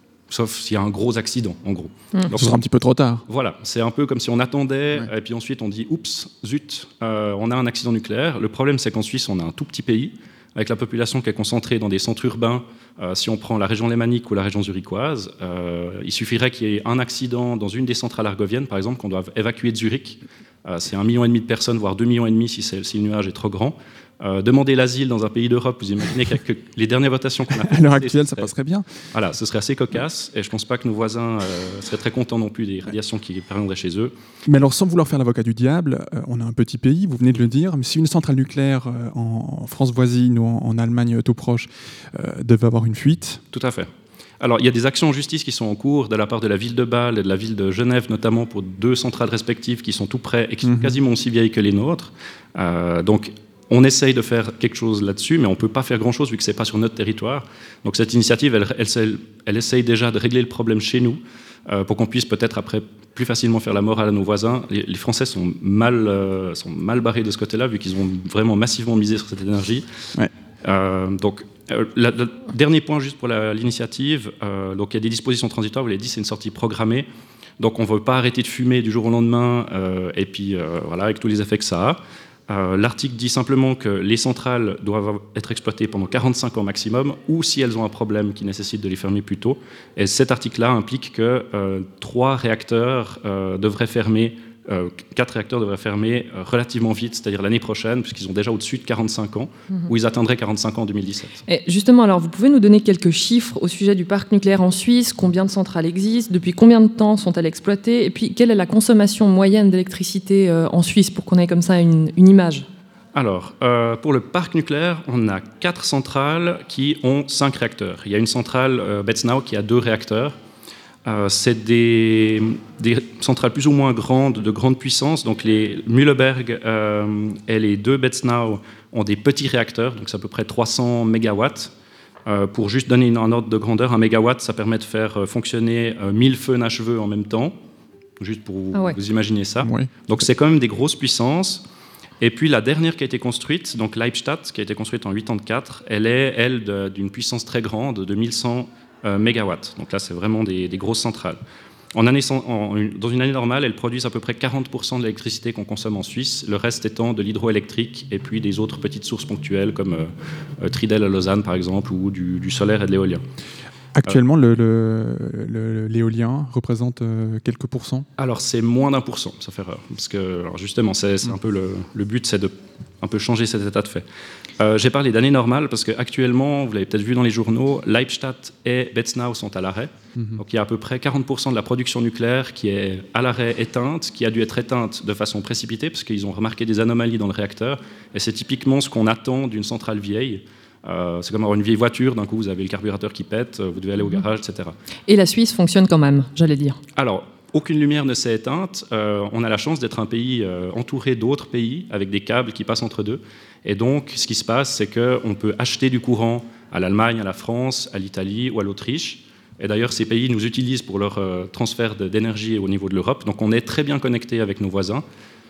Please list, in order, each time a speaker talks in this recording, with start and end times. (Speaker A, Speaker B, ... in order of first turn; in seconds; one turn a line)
Speaker A: 0.3-2.6
Speaker B: 2.3-3.2
Speaker A: 3.3-28.5
Speaker B: 27.5-28.9
Speaker A: 29.1-34.1
Speaker B: 34.5-43.4
Speaker A: 43.5-43.9
Speaker A: 44.4-69.9
Speaker B: 50.6-51.0
Speaker A: 70.6-77.1
Speaker A: 77.6-101.4
Speaker C: 101.5-112.7
Speaker A: 113.1-120.4
Speaker A: 121.0-131.7
Speaker A: 132.3-137.6
Speaker A: 138.2-141.6
Speaker B: 139.6-140.0
Speaker A: 142.2-151.4
Speaker A: 151.9-163.2
Speaker B: 164.0-168.1
Speaker A: 168.2-174.1
Speaker A: 174.6-194.8
Speaker B: 180.2-180.4
Speaker C: 195.1-196.8
Speaker A: 197.0-215.1